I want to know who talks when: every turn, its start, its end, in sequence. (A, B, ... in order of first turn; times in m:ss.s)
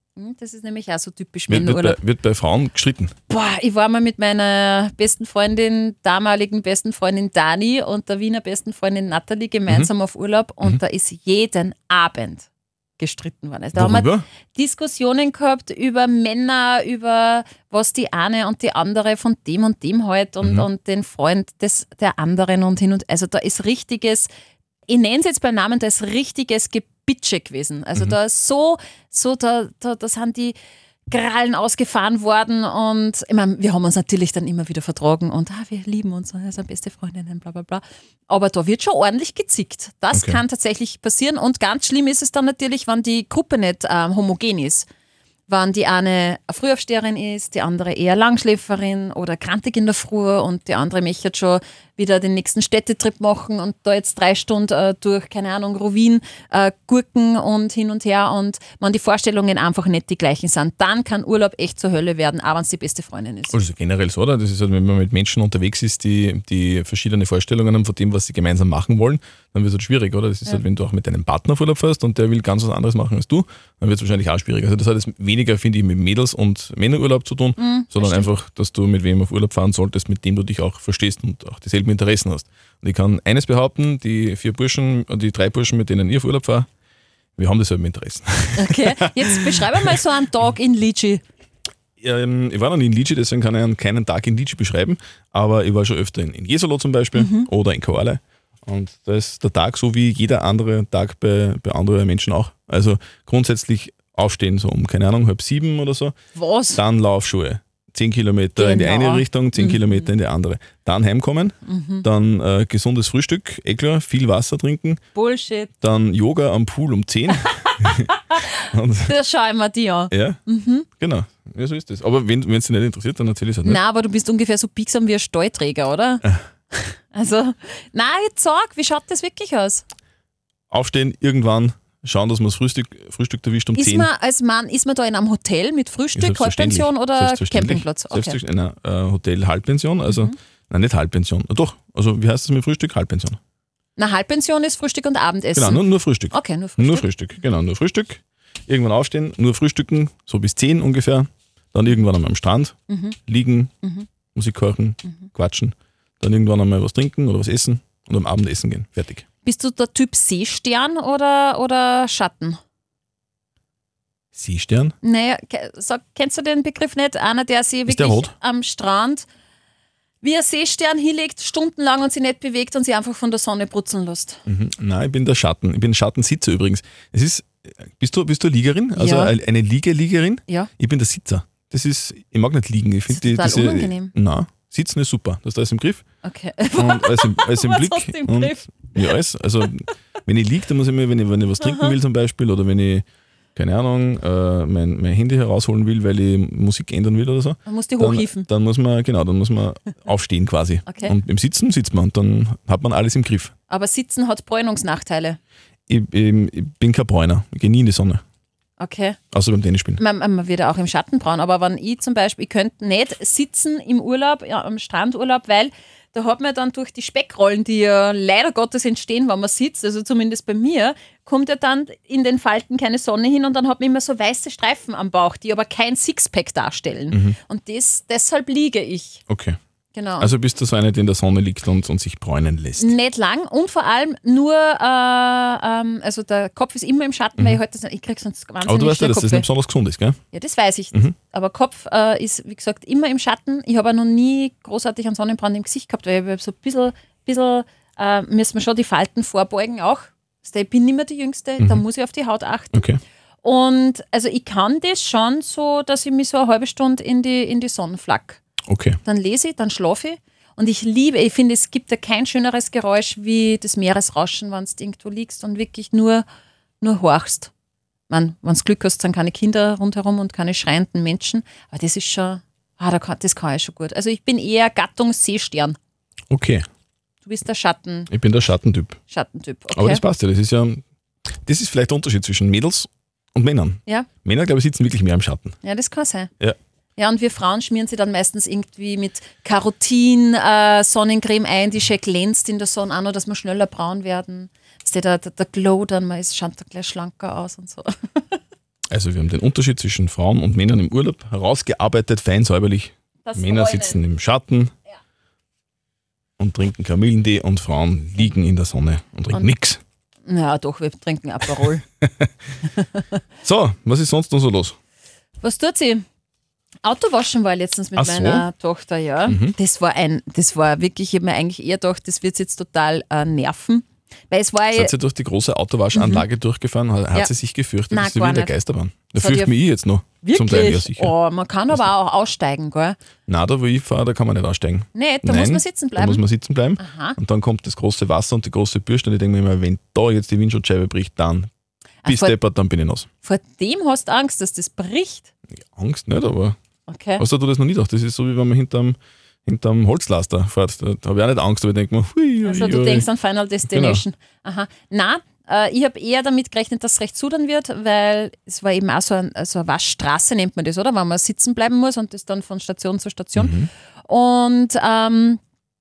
0:00.2-0:02.0 A
0:01.5-0:03.1 B
0:03.3-0:24.3 A
0:13.8-0:14.2 B
0:24.9-0:30.6 A
0:31.1-0:44.9 A
0:40.1-0:40.4 B
0:45.5-1:03.6 A
1:03.5-1:26.7 B
1:17.6-1:18.3 A
1:27.4-1:30.0 B
1:28.6-1:31.2 A
1:32.0-1:46.2 B
1:37.1-1:37.5 A
1:46.4-1:46.8 A
1:46.7-1:55.0 B
1:48.6-1:50.1 A
1:51.6-1:52.1 A
1:55.1-1:55.7 A
1:55.8-1:58.1 B
1:57.3-2:00.9 A
1:58.7-1:59.2 B
2:00.1-2:00.4 B
2:01.0-2:03.8 B
2:03.6-2:09.8 A
2:10.7-2:14.1 B
2:13.8-2:18.4 A
2:16.1-2:23.4 B
2:20.1-2:20.4 A
2:24.0-2:27.1 A
2:25.5-2:32.8 B
2:32.9-2:33.2 A
2:33.3-2:33.7 B
2:33.8-2:34.1 A
2:34.4-2:39.2 B
2:39.4-2:42.6 A
2:44.3-2:44.9 B
2:45.0-2:49.2 A
2:47.9-2:48.3 B
2:50.2-2:54.4 A
2:54.5-3:06.0 B
2:59.0-2:59.4 A
3:03.1-3:04.1 A
3:06.2-3:09.2 A
3:06.8-3:13.0 B
3:11.6-3:12.0 A
3:13.5-3:23.5 B
3:17.6-3:18.5 A
3:20.9-3:21.1 A
3:23.7-3:25.4 A
3:25.9-3:28.2 B
3:28.8-3:29.2 A
3:29.3-3:30.0 B
3:30.0-3:49.2 A
3:47.1-3:47.4 B
3:49.3-3:49.6 B
3:49.9-3:50.4 A
3:50.2-3:53.0 B
3:52.8-3:59.5 A
3:58.6-4:00.2 B
4:00.3-4:12.9 A
4:12.7-4:13.0 B
4:13.4-4:18.4 A
4:18.7-4:19.0 B
4:19.0-4:26.2 A
4:26.8-4:27.5 A
4:28.1-4:35.8 A
4:36.3-4:36.6 B
4:37.2-4:38.1 A
4:38.1-4:39.0 B
4:39.1-4:40.0 A
4:39.7-4:40.8 B
4:41.5-4:45.6 B
4:45.6-4:46.3 A
4:47.0-4:58.4 A
4:58.9-5:04.7 B
5:03.2-5:04.0 A
5:06.4-5:09.8 B
5:10.2-5:11.8 A
5:12.0-5:12.3 B
5:12.8-5:13.0 A
5:13.4-5:14.8 B
5:15.4-5:16.0 A
5:16.8-5:24.9 A
5:18.0-5:18.5 B
5:19.3-5:19.6 B
5:24.7-5:31.1 B
5:25.9-5:26.2 A
5:27.9-5:28.5 A
5:29.2-5:29.5 A
5:30.2-5:33.0 A
5:33.3-5:41.5 B
5:35.0-5:36.2 A
5:36.8-5:37.2 A
5:42.0-5:42.4 A
5:42.0-5:43.1 B
5:43.2-5:45.3 A
5:45.7-5:46.6 B
5:46.9-5:47.2 A
5:47.2-5:53.1 B
5:52.4-6:05.4 A
5:53.7-5:54.0 B
6:03.4-6:03.7 B